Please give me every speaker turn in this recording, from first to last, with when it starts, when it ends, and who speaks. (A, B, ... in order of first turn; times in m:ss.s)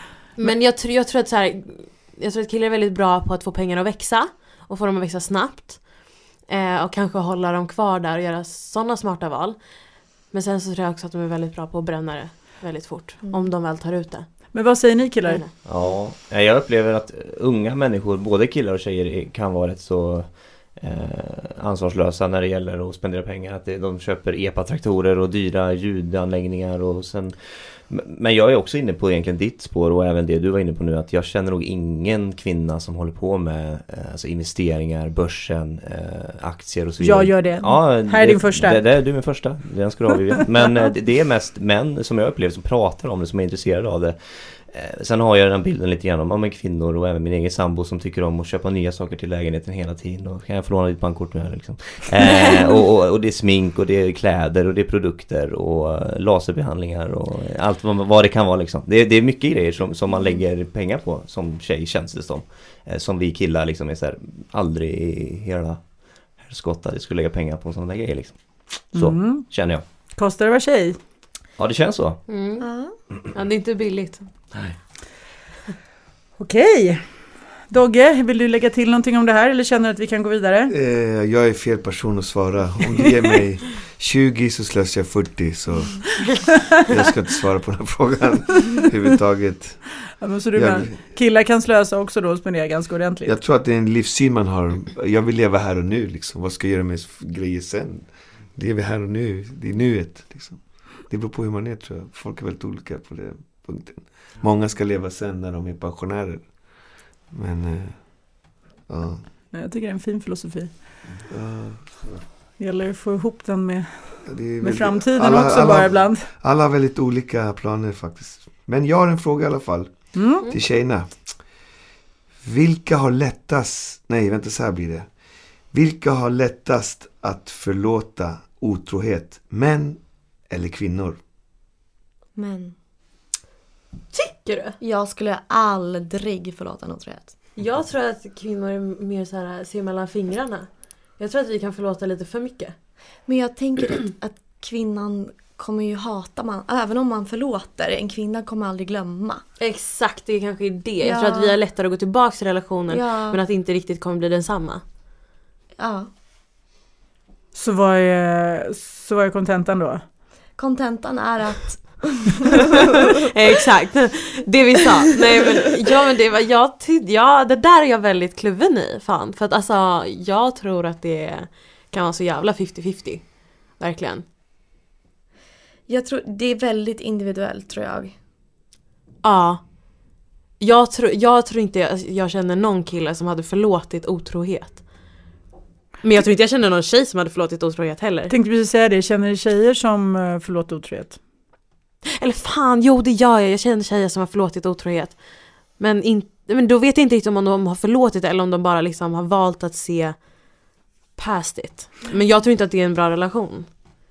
0:00.4-0:14.6 A
0:13.2-0:13.5 B
0:14.5-0:15.4 C
0:15.3-0:15.6 A
0:15.6-1:09.8 D
0:37.0-0:38.8 C
1:08.9-1:09.5 C
1:10.2-1:11.0 C
1:11.6-1:12.2 D
1:12.3-1:12.7 A
1:12.6-1:13.0 B
1:13.3-1:14.3 A
1:14.5-1:14.8 D
1:16.4-1:17.1 C
1:17.7-1:20.7 C
1:20.7-1:29.9 E
1:30.2-1:33.4 C
1:30.6-1:31.0 E
1:33.3-1:49.3 E
1:49.5-1:50.8 C
1:51.3-1:52.2 E
1:52.6-1:56.3 C
1:54.2-2:01.5 E
2:00.1-2:00.4 C
2:02.4-2:05.1 E
2:05.7-2:11.2 E
2:12.4-2:12.8 B
2:14.1-2:14.8 A
2:14.8-2:17.4 B
2:17.6-2:22.8 A
2:23.3-2:29.4 B
2:29.6-2:34.8 A
2:31.0-2:31.6 B
2:32.9-2:33.4 B
2:35.8-2:36.1 B
2:37.5-2:40.0 C
2:40.6-2:43.0 B
2:43.3-2:54.2 A
2:55.9-2:58.2 B
2:59.2-3:05.2 A
3:06.0-3:08.3 A
3:08.3-3:11.2 C
3:12.2-3:23.7 A